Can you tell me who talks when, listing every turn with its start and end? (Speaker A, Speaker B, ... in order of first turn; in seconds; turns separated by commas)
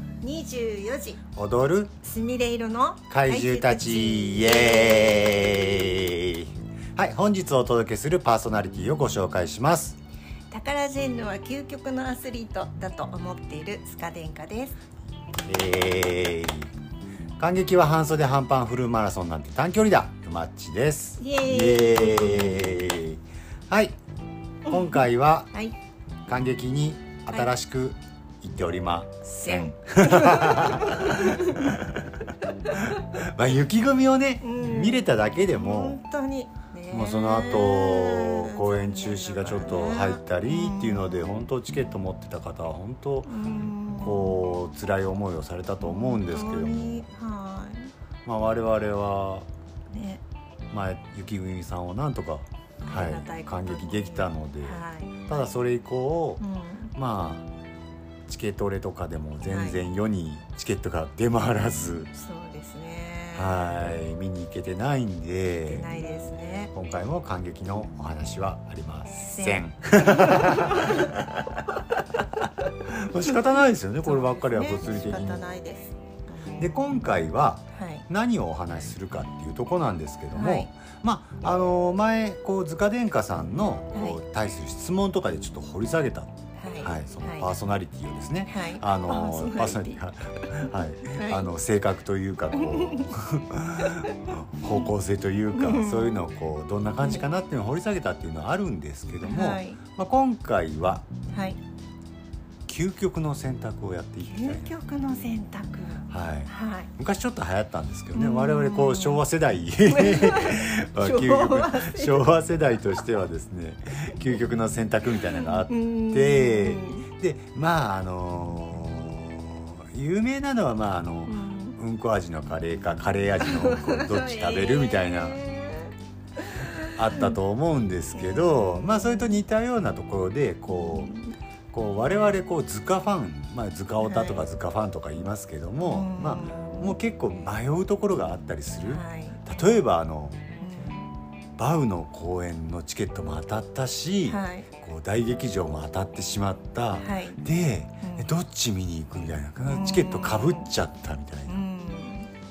Speaker A: 0.2-1.2, Speaker B: 1.4-1.9, Speaker A: 2.0-5.7, Speaker B: 3.1-10.0, Speaker A: 10.5-14.8, Speaker B: 15.5-16.7, Speaker B: 17.4-24.0, Speaker A: 21.2-22.7, Speaker B: 24.6-25.5, Speaker A: 24.7-25.8, Speaker B: 26.3-32.3, Speaker A: 29.4-31.8, Speaker A: 32.6-33.0, Speaker B: 33.0-36.0, Speaker A: 34.4-41.3, Speaker B: 36.9-47.1, Speaker A: 43.2-44.4, Speaker A: 45.8-47.9, Speaker B: 48.2-49.5, Speaker A: 49.9-50.2, Speaker B: 50.7-56.4, Speaker A: 52.8-55.3, Speaker A: 56.4-56.9, Speaker B: 57.0-57.5, Speaker B: 58.3-62.1, Speaker A: 59.5-59.8, Speaker A: 62.1-63.8, Speaker B: 63.4-65.9, Speaker A: 65.7-66.7, Speaker B: 66.7-71.8, Speaker A: 69.2-71.1, Speaker B: 72.8-75.4, Speaker A: 74.0-76.8, Speaker B: 76.6-101.0, Speaker A: 77.7-78.0, Speaker A: 80.3-80.7, Speaker A: 83.9-84.2, Speaker A: 86.6-87.5, Speaker A: 88.5-91.5, Speaker A: 92.5-93.1, Speaker A: 93.8-94.2, Speaker A: 95.5-96.3, Speaker A: 99.2-99.8, Speaker A: 101.3-101.6, Speaker B: 102.7-104.7, Speaker A: 104.2-106.9, Speaker B: 106.1-125.4, Speaker A: 108.1-109.3, Speaker A: 109.9-112.4, Speaker A: 115.7-117.1, Speaker A: 121.3-121.8, Speaker A: 123.4-127.4, Speaker B: 127.0-131.1, Speaker A: 128.2-129.4, Speaker A: 130.7-131.4, Speaker B: 131.7-140.4, Speaker A: 134.0-134.4, Speaker A: 135.8-136.9, Speaker A: 138.8-139.8, Speaker A: 140.6-141.1, Speaker B: 141.6-151.7, Speaker A: 144.3-144.7, Speaker A: 147.0-147.4, Speaker A: 148.0-148.3, Speaker A: 149.6-150.7, Speaker A: 151.5-152.3